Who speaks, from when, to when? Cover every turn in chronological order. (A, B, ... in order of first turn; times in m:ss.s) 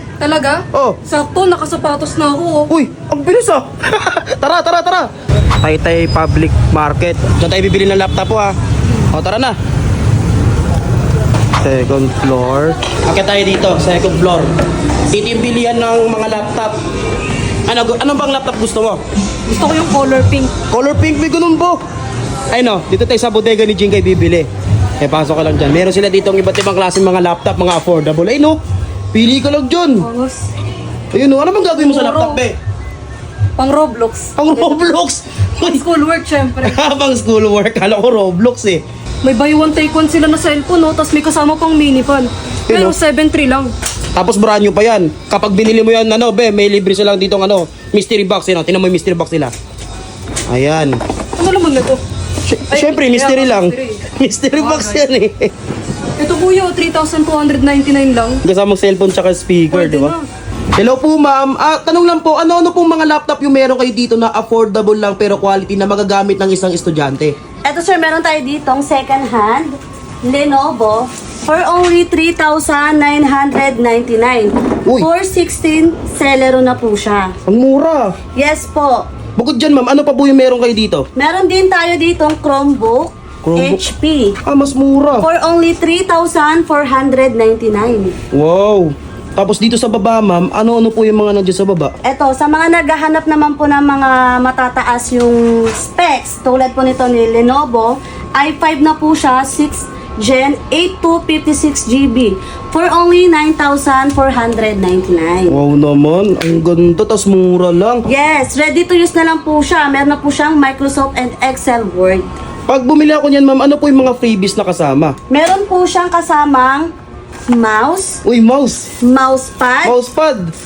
0:00.2-0:02.7 A
0:00.7-0:01.0 B
0:02.7-0:05.1 B
0:05.6-0:08.6 B
0:09.1-0:09.6 B
0:11.6-0:14.5 B
0:15.1-0:16.8 B
0:17.7-0:19.0 B
0:19.5-0:20.5 A
0:20.7-0:21.8 B
0:22.5-0:24.5 B
0:25.0-0:28.6 B
0:29.1-0:30.0 B
0:30.0-0:30.5 A
0:31.1-0:32.6 B
0:31.7-0:32.4 A
0:33.6-0:34.8 A
0:34.4-0:35.8 B
0:35.6-0:36.8 A
0:36.6-0:38.8 B
0:39.2-0:43.7 A
0:42.7-0:43.0 B
0:44.1-0:49.5 B
0:50.5-0:51.0 B
0:51.4-0:52.0 A
0:52.4-0:55.5 B
0:52.7-0:54.0 A
0:54.6-0:55.0 A
0:56.2-0:58.4 A
0:58.4-1:00.2 B
0:59.7-1:00.3 A
1:00.8-1:07.4 B
1:07.6-1:17.3 C
1:17.4-1:18.2 B
1:18.3-1:19.1 C
1:19.4-1:21.0 B
1:21.2-1:24.4 C
1:23.4-1:23.8 B
1:24.4-1:25.3 B
1:25.2-1:28.1 C
1:28.3-1:31.9 B
1:32.0-1:45.6 C
1:45.5-1:48.0 B
1:48.1-1:52.3 C
1:52.7-1:55.1 B
1:55.3-1:56.9 C
1:57.5-1:58.2 C
1:58.2-1:58.9 B
1:59.0-2:00.0 C
1:59.8-2:00.5 B